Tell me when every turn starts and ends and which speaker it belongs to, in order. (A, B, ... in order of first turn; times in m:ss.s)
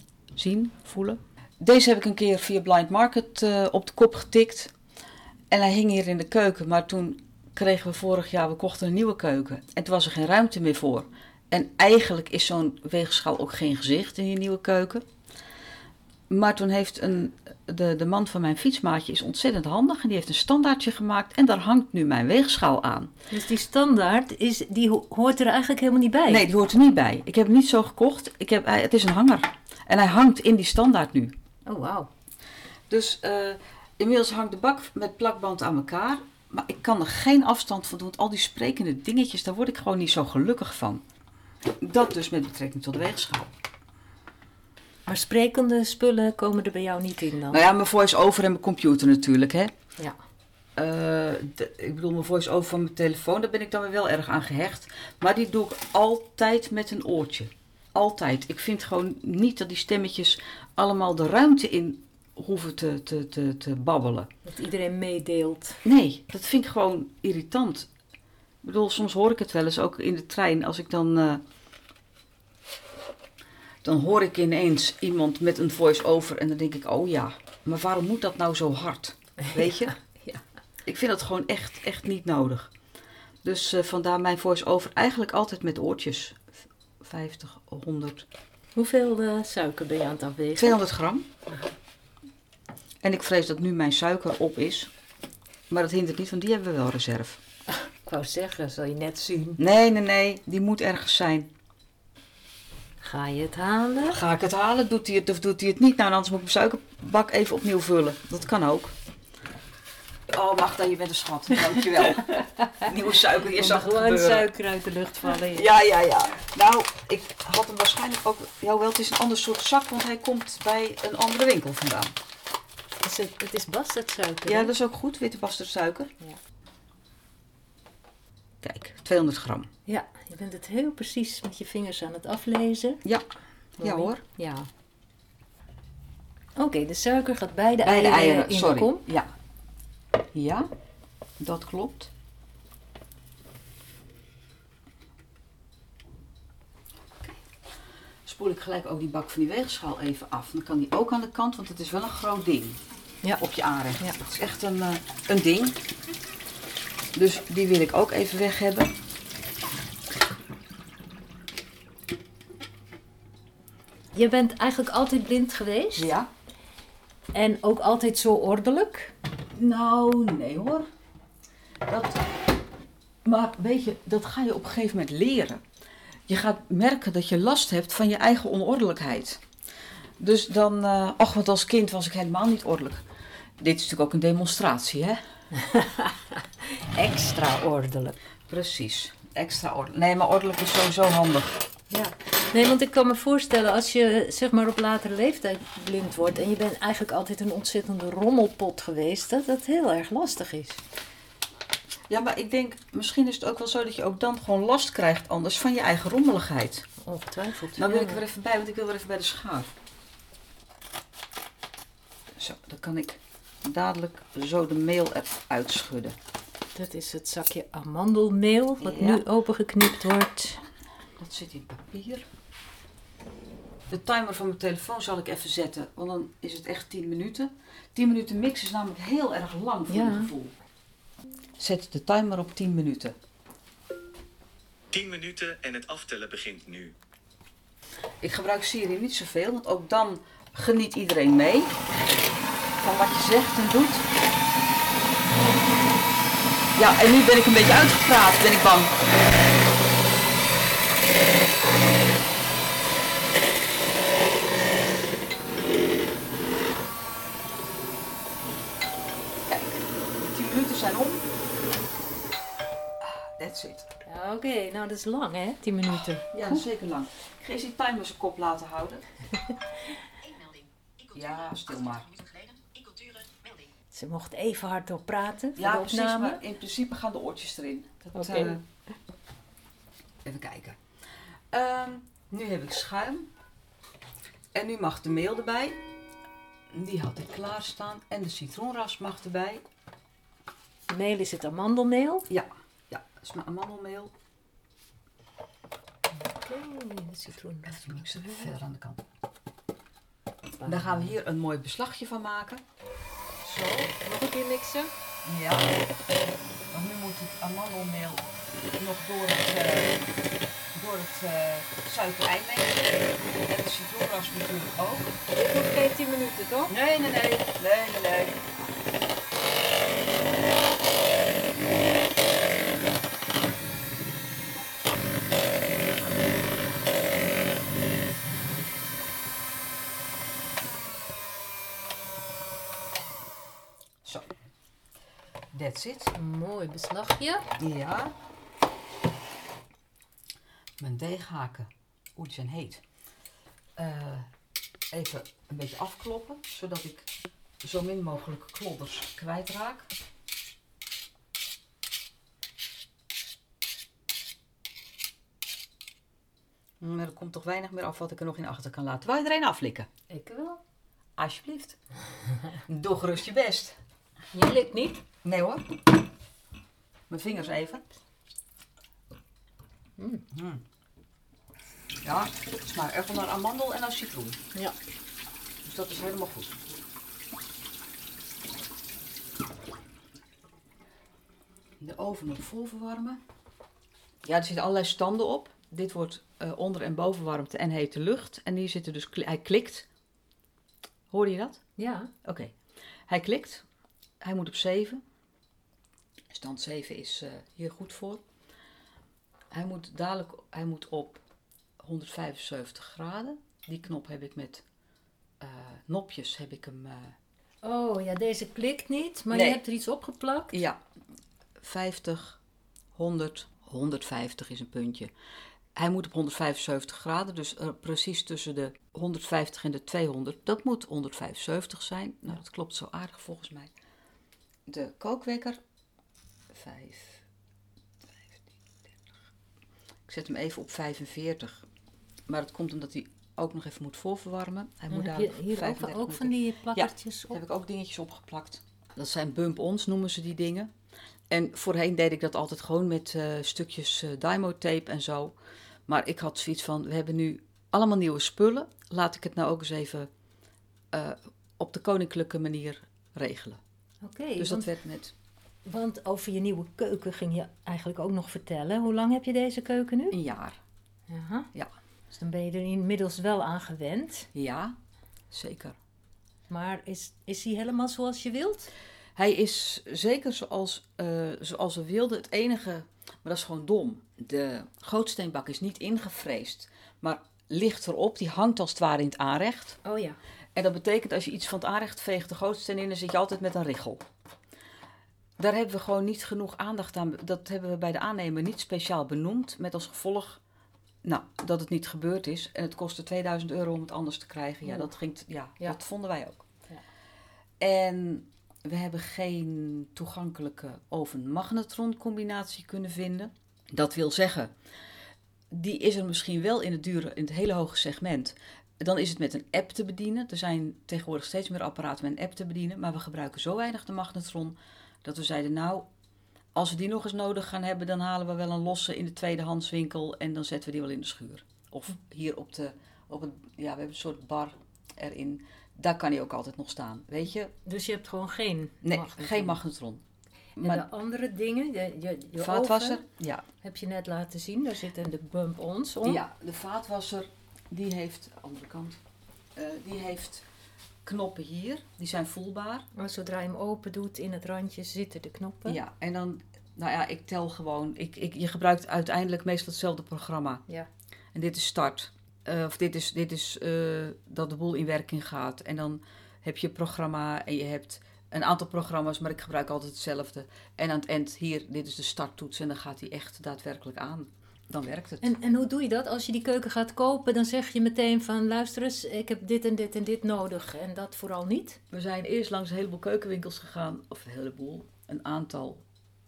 0:00.4-0:04.7 A
0:05.5-0:15.0 A
0:16.3-0:23.1 A
0:23.3-0:26.4 B
0:26.3-0:31.3 A
0:31.6-0:32.1 B
0:32.9-0:41.0 A
0:41.8-0:43.5 A
0:45.1-0:47.6 B
0:47.5-0:49.7 A
0:50.8-1:04.3 A
1:04.4-1:05.8 B
1:05.8-1:07.9 A
1:08.6-1:11.4 A
1:13.8-1:20.0 A
1:19.4-1:20.4 B
1:20.8-1:22.7 A
1:23.4-1:28.2 A
1:28.7-1:30.8 B
1:30.6-1:31.3 A
1:33.0-1:34.9 A
1:35.7-1:37.4 A
1:37.8-1:39.6 B
1:39.6-1:41.5 A
1:43.0-1:44.2 B
1:44.1-1:48.9 A
1:50.3-1:54.5 A
1:52.2-1:52.8 B
1:53.5-1:55.7 B
1:55.2-2:02.1 A
2:03.0-2:04.7 B
2:04.4-2:06.1 A
2:08.6-2:09.7 A
2:09.8-2:13.0 B
2:13.8-2:14.2 A
2:13.8-2:14.7 B
2:16.6-2:19.0 B
2:17.8-2:19.3 A
2:20.3-2:20.7 A
2:21.4-2:22.1 A
2:28.2-2:32.8 A
2:33.4-2:35.8 A
2:37.1-2:38.9 A
2:44.1-2:46.1 B
2:46.0-2:46.3 A
2:47.3-2:49.1 B
2:49.6-2:50.8 A
2:51.8-2:52.5 A
2:53.2-2:55.6 A
2:56.3-2:59.4 A
3:00.2-3:03.0 A
3:03.6-3:05.2 A
3:05.5-3:08.2 B
3:08.5-3:12.1 A
3:12.5-3:20.8 B
3:22.1-3:26.9 A
3:27.0-3:28.2 B
3:27.8-3:29.7 A
3:32.4-3:36.1 A
3:36.7-3:40.6 B
3:38.8-3:39.2 A
3:41.2-3:42.3 A
3:43.9-3:50.5 A
3:49.9-3:50.3 B
3:51.6-3:53.1 A
3:54.9-3:56.9 C
3:58.2-4:01.8 A
4:02.8-4:04.0 A
4:06.8-4:09.0 A
4:19.5-4:21.3 A
4:23.0-4:23.9 A
4:24.0-4:26.6 B
4:26.3-4:29.0 A
4:31.1-4:32.3 A
4:33.9-4:36.4 B
4:35.6-4:38.6 A
4:38.2-4:38.6 B
4:40.2-4:40.8 A
4:41.5-4:43.3 A
4:44.5-4:45.8 A
4:46.7-4:49.6 A
4:50.9-4:52.3 B
4:52.3-4:54.1 A
4:56.1-4:58.5 B
4:57.6-4:59.0 A
5:00.6-5:01.0 B
5:00.6-5:02.6 A
5:03.4-5:03.9 A
5:03.9-5:04.9 B
5:05.2-5:05.8 A
5:06.7-5:10.0 A
5:10.7-5:15.2 A
5:15.3-5:16.7 B
5:16.7-5:18.4 A
5:35.5-5:36.1 A
5:36.1-5:37.5 B
5:37.6-5:38.1 A
5:40.8-5:42.8 A
5:43.8-5:44.3 A
5:44.9-5:47.1 A
5:47.6-5:49.9 A
5:56.8-5:59.9 A
6:00.1-6:00.6 B
6:01.2-6:01.8 A
6:02.7-6:03.8 A
6:04.3-6:05.0 B
6:05.2-6:05.8 A
6:07.1-6:07.9 A
6:10.0-6:10.2 B
6:10.3-6:10.6 A
6:12.0-6:14.4 A
6:15.6-6:16.6 A
6:21.8-6:23.2 A
6:24.2-6:29.8 A
6:31.1-6:31.6 A
6:31.8-6:32.1 B
6:32.2-6:32.5 A
6:33.1-6:33.6 A
6:34.2-6:35.0 A
6:36.3-6:38.2 A
6:39.5-6:41.2 A
6:41.8-6:44.6 A
6:45.4-6:47.2 A
6:47.6-6:50.6 B
6:49.3-6:49.6 A
6:50.5-6:50.8 A
6:51.6-6:52.4 A
6:52.9-6:55.1 A
6:55.8-7:03.7 A
7:04.7-7:05.6 A
7:06.5-7:07.2 A
7:08.0-7:08.9 A
7:10.1-7:11.6 A
7:12.3-7:20.7 A
7:14.9-7:17.4 B
7:21.3-7:25.3 A
7:25.9-7:30.1 A
7:30.9-7:33.6 A
7:34.0-7:34.7 B
7:34.4-7:35.1 A
7:35.6-7:40.2 B
7:40.1-7:40.6 A
7:41.1-7:41.5 B
7:42.1-7:44.3 B
7:44.3-7:44.7 A
7:45.3-7:45.8 A
7:46.5-7:48.7 B
7:49.2-7:59.8 A
7:59.8-8:00.2 B
8:00.5-8:04.0 A
8:05.4-8:10.4 A
8:11.0-8:16.4 A
8:17.6-8:24.5 A
8:25.5-8:35.9 A
8:36.5-8:47.5 A
8:47.6-8:49.6 B
8:48.8-8:50.0 A
8:50.6-8:50.8 A
8:50.6-8:53.0 B
8:52.4-8:53.4 A
8:53.6-8:56.2 B
8:56.0-8:59.0 A
8:59.5-9:00.4 A
9:01.0-9:02.8 A
9:02.9-9:05.8 B
9:05.6-9:10.6 A
9:11.3-9:25.3 A
9:25.2-9:31.8 B
9:31.9-9:35.8 A